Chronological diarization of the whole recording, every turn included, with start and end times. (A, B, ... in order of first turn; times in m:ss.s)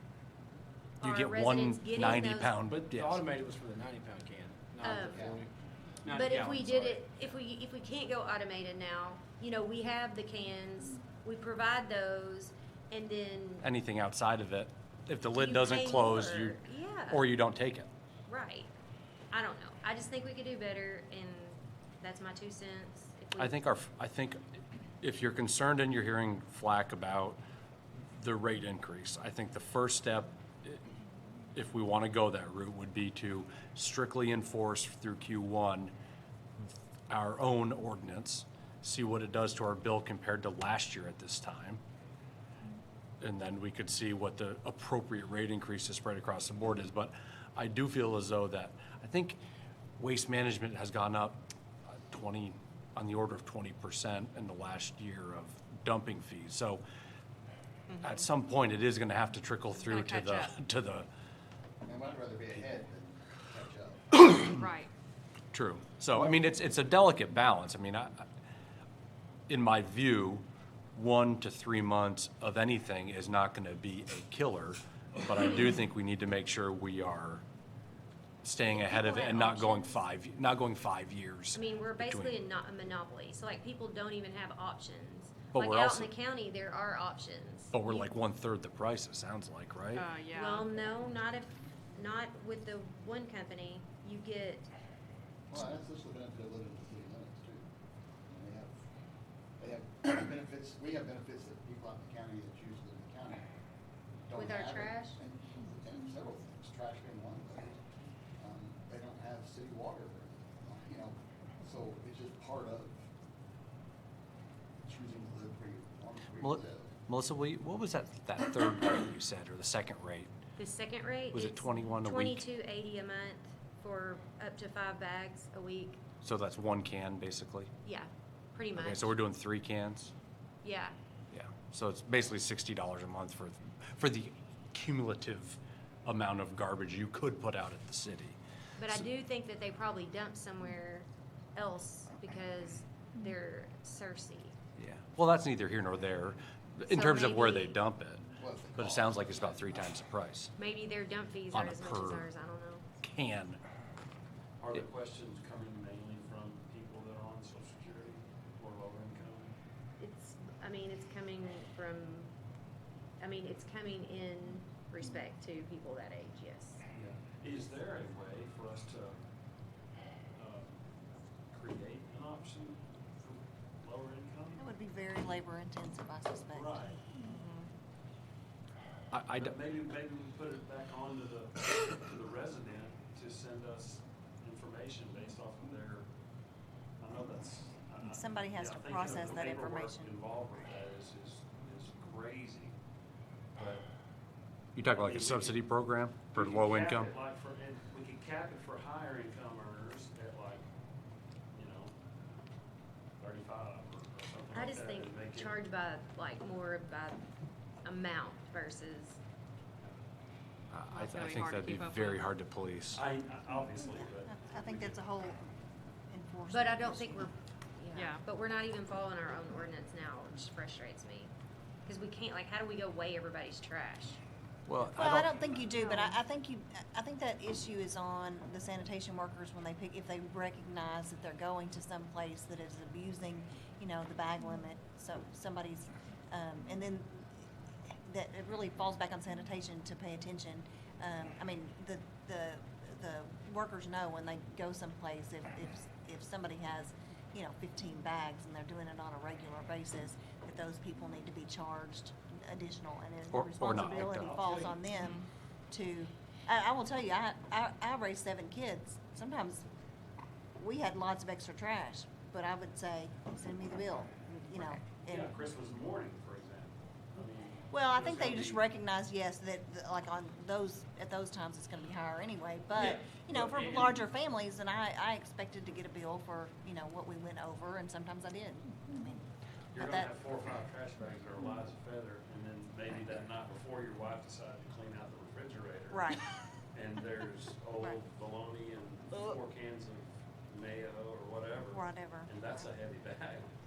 0:01.0-0:02.5 A
0:01.0-0:03.2 B
0:02.7-0:05.5 C
0:04.8-0:05.2 A
0:05.0-0:05.4 D
0:06.0-0:07.0 C
0:06.1-0:13.7 A
0:13.6-0:17.9 B
0:15.4-0:17.2 A
0:18.3-0:18.7 A
0:19.3-0:23.6 A
0:23.4-0:24.4 B
0:25.0-0:27.4 B
0:28.1-0:30.8 B
0:31.5-0:35.9 B
0:36.6-0:41.8 B
0:43.2-0:49.4 B
0:50.0-0:51.4 B
0:52.0-0:56.8 B
0:58.0-1:01.1 B
0:59.8-1:00.6 E
1:01.8-1:04.0 D
1:04.1-1:04.6 B
1:04.4-1:04.9 E
1:05.5-1:08.2 B
1:09.5-1:17.4 B
1:18.4-1:22.4 B
1:18.7-1:20.0 A
1:21.5-1:27.8 A
1:25.5-1:26.1 B
1:27.7-1:30.1 B
1:29.9-1:30.7 E
1:30.3-1:34.7 A
1:35.5-1:37.6 D
1:38.3-1:38.7 D
1:39.6-1:43.4 D
1:44.2-1:47.8 D
1:44.3-1:45.2 A
1:48.4-1:53.0 D
1:54.8-1:57.0 D
1:56.4-2:00.3 B
2:00.6-2:06.0 A
2:01.3-2:02.4 B
2:06.2-2:07.7 B
2:07.8-2:09.2 A
2:08.7-2:10.1 B
2:10.6-2:10.9 A
2:11.3-2:19.1 B
2:18.8-2:24.5 A
2:24.8-2:30.5 B
2:26.9-2:27.8 A
2:28.4-2:29.4 D
2:30.6-2:32.8 A
2:31.5-2:32.3 B
2:33.0-2:33.6 B
2:34.6-2:39.5 F
2:40.0-2:42.3 A
2:43.2-2:46.8 A
2:46.9-2:49.2 F
2:50.4-2:50.8 F
2:51.5-2:54.6 F
2:54.6-2:57.7 G
2:56.5-2:57.0 F
2:59.1-2:59.5 B
2:59.3-3:06.0 F
3:07.0-3:12.7 F
3:08.0-3:10.2 G
3:13.6-3:13.8 F
3:14.8-3:17.1 B
3:14.9-3:15.6 F
3:16.3-3:20.6 F
3:21.5-3:21.9 F
3:23.2-3:25.6 F
3:24.5-3:27.2 A
3:27.8-3:29.2 A
3:30.7-3:33.0 B
3:30.9-3:32.3 E
3:32.9-3:35.0 F
3:33.7-3:35.5 G
3:36.1-3:37.3 G
3:36.5-3:41.3 A
3:41.8-3:44.2 A
3:44.7-3:45.3 B
3:44.9-3:57.3 G
3:58.0-4:19.7 G
4:13.3-4:14.3 B
4:13.8-4:14.9 F
4:20.6-4:25.3 G
4:25.0-4:28.6 F
4:27.7-4:40.1 G
4:32.7-4:34.0 F
4:39.7-4:46.1 F
4:45.9-4:46.2 G
4:46.7-4:53.5 F
4:51.6-4:52.7 G